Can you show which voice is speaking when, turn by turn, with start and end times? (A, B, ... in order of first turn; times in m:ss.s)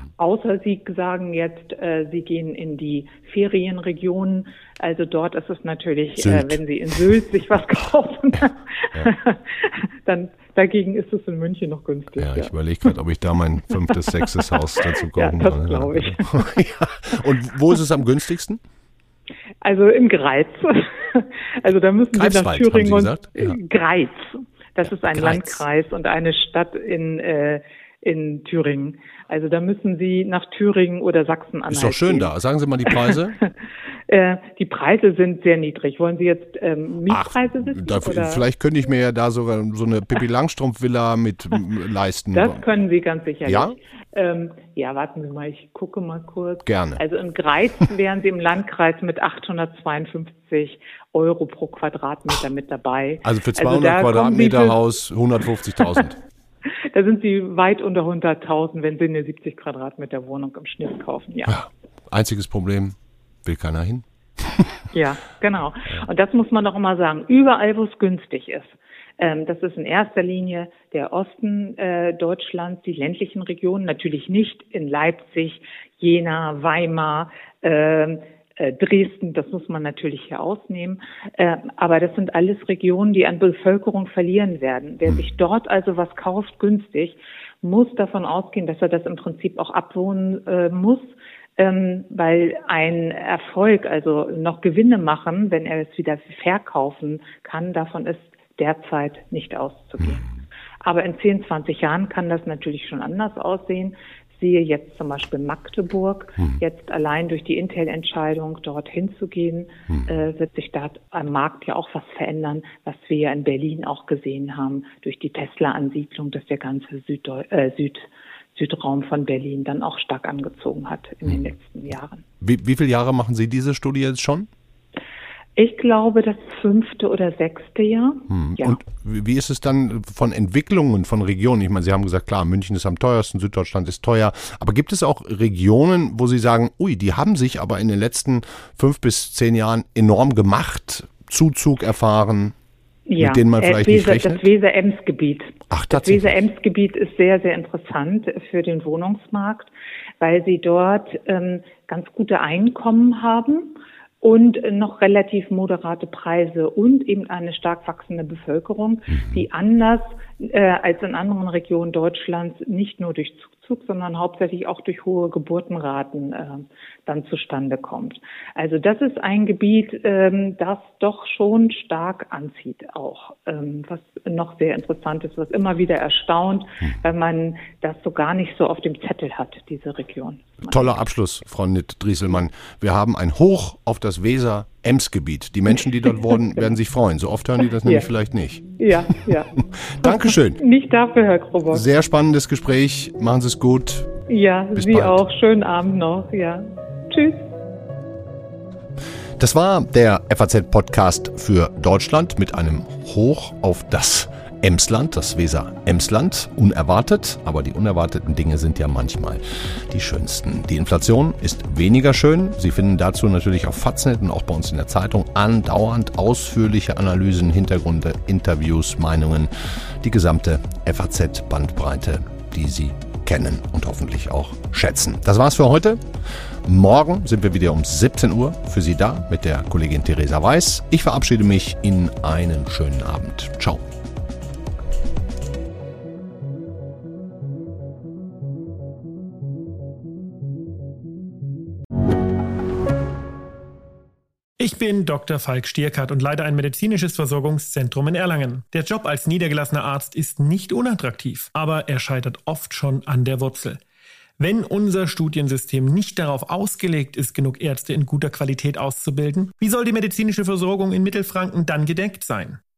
0:00.2-0:12.9 A
0:06.2-0:07.1 B
0:12.2-0:18.6 B
0:13.7-0:16.5 A
0:19.6-0:32.3 A
0:22.1-0:23.6 B
0:24.8-0:25.6 B
0:31.7-0:33.4 B
0:32.9-0:33.5 A
0:34.1-0:38.4 A
0:37.1-0:42.7 B
0:42.3-0:54.8 A
0:43.5-0:43.7 B
0:46.7-0:47.0 B
0:53.2-0:56.2 B
0:55.8-0:56.1 A
0:56.9-1:01.6 A
1:01.5-1:04.7 B
1:04.9-1:40.3 A
1:40.8-2:02.2 A
2:02.4-2:04.5 B
2:05.6-2:08.8 A
2:08.3-2:22.6 B
2:23.1-3:00.9 A
2:23.2-2:24.4 B
2:25.7-2:26.4 B
3:00.7-3:08.7 B
3:06.0-3:06.7 A
3:07.7-3:08.1 A
3:08.7-3:11.8 A
3:09.8-3:10.6 B
3:11.7-3:14.1 B
3:14.3-3:17.5 A
3:14.8-3:15.2 B
3:19.4-3:46.0 B
3:46.6-3:53.8 B
4:04.6-4:13.8 C
4:14.4-4:22.6 C